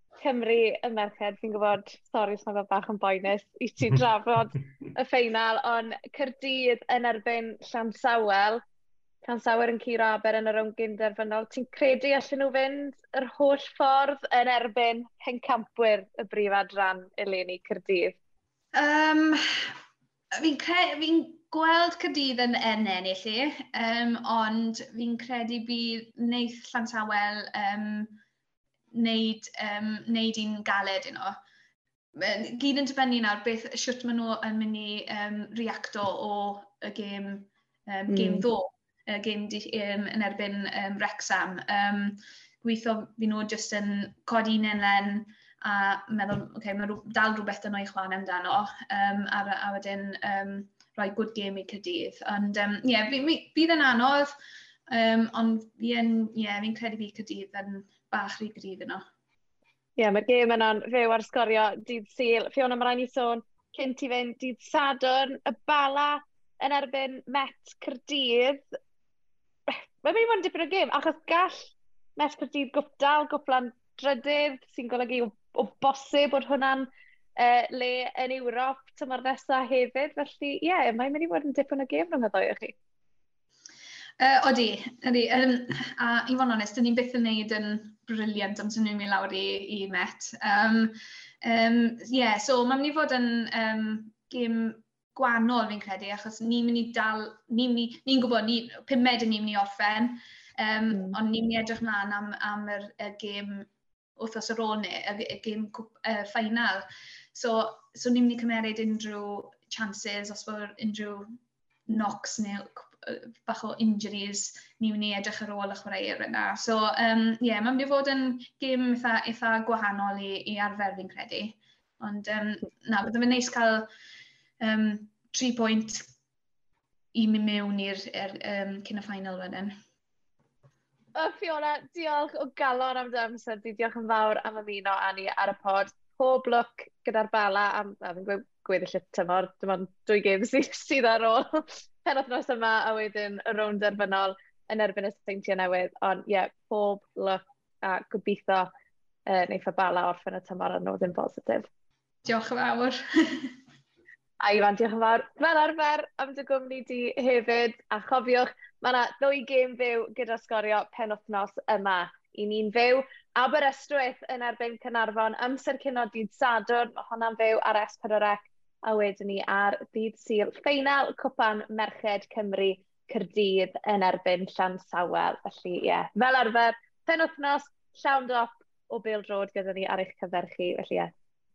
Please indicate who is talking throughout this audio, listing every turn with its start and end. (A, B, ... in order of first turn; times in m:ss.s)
0:00.2-0:08.6 A
0:09.2-0:18.2 A
0:18.7-0:19.8 B
0:20.4-0:28.2 B
0:28.9-0:31.4 B
0:32.2-0:54.3 B
0:38.1-0:38.5 A
0:54.9-0:59.0 B
1:00.0-1:08.6 A
1:09.7-1:22.8 A
1:24.2-1:51.3 B
1:40.9-1:41.2 A
1:51.9-2:03.9 B
2:04.6-2:06.1 B
2:07.1-2:09.7 B
2:11.2-2:28.7 A
2:29.3-2:31.7 A
2:32.2-2:33.5 B
2:34.4-3:01.1 A